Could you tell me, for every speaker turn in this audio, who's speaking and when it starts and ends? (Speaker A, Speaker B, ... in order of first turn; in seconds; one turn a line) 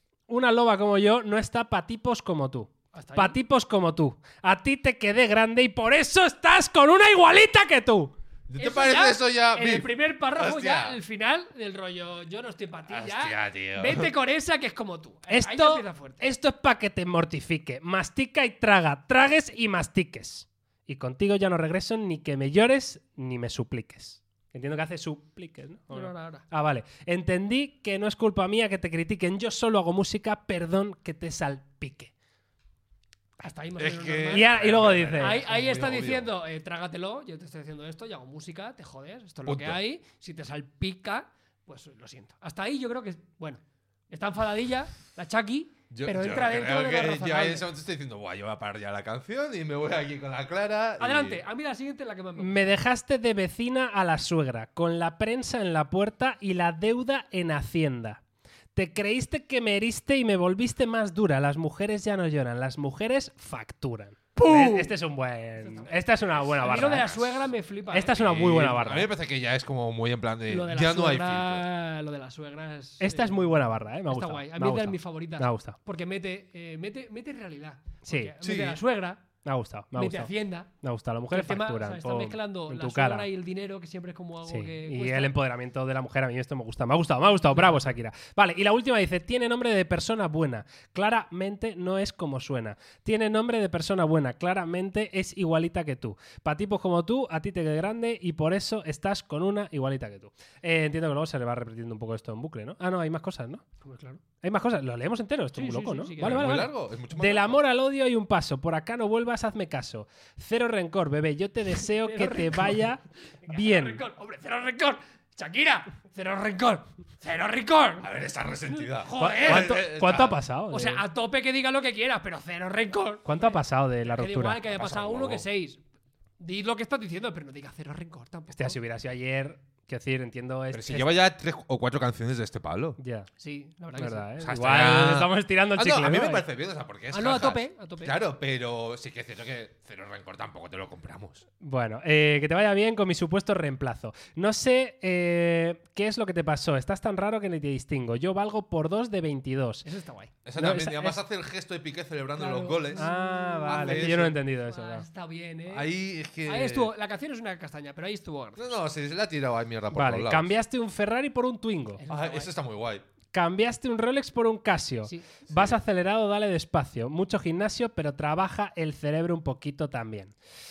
Speaker A: 0.3-8.1
Speaker B: 2.9-3.4
Speaker C: 8.5-11.0
Speaker B: 8.6-16.3
Speaker C: 12.9-14.1
Speaker A: 15.3-32.1
Speaker B: 25.9-26.4
Speaker B: 33.4-47.6
Speaker C: 33.8-36.3
Speaker A: 34.3-35.4
Speaker C: 39.5-39.8
Speaker C: 45.9-51.4
Speaker B: 51.0-52.7
Speaker A: 52.4-58.2
Speaker A: 58.7-67.2
Speaker B: 64.3-64.9
Speaker B: 65.6-66.0
Speaker C: 66.3-67.5
Speaker B: 66.6-68.2
Speaker A: 67.9-69.1
Speaker C: 68.1-71.6
Speaker B: 70.5-79.2
Speaker A: 73.0-75.8
Speaker A: 78.1-78.3
Speaker C: 78.4-78.8
Speaker A: 79.4-83.3
Speaker B: 79.9-80.7
Speaker B: 81.3-85.3
Speaker A: 84.5-103.6
Speaker B: 103.8-104.2
Speaker A: 104.4-114.0
Speaker B: 105.5-106.6
Speaker C: 106.2-107.6
Speaker B: 111.8-112.8
Speaker B: 113.4-118.1
Speaker C: 118.0-120.4
Speaker B: 118.7-119.9
Speaker A: 119.2-121.0
Speaker B: 120.7-125.8
Speaker A: 123.2-124.6
Speaker C: 124.7-125.5
Speaker B: 126.4-128.8
Speaker A: 128.5-131.1
Speaker C: 130.7-133.0
Speaker A: 133.0-133.3
Speaker B: 133.4-134.3
Speaker A: 133.9-136.4
Speaker C: 134.4-141.4
Speaker B: 137.1-138.2
Speaker A: 141.6-149.8
Speaker B: 149.8-150.8
Speaker C: 150.4-153.1
Speaker A: 150.6-151.2
Speaker B: 152.3-155.9
Speaker A: 152.9-155.0
Speaker C: 153.7-154.4
Speaker C: 155.7-156.9
Speaker B: 156.4-158.8
Speaker C: 158.6-160.5
Speaker A: 159.9-162.0
Speaker B: 162.0-162.5
Speaker C: 162.1-163.0
Speaker A: 163.3-170.3
Speaker C: 165.5-165.8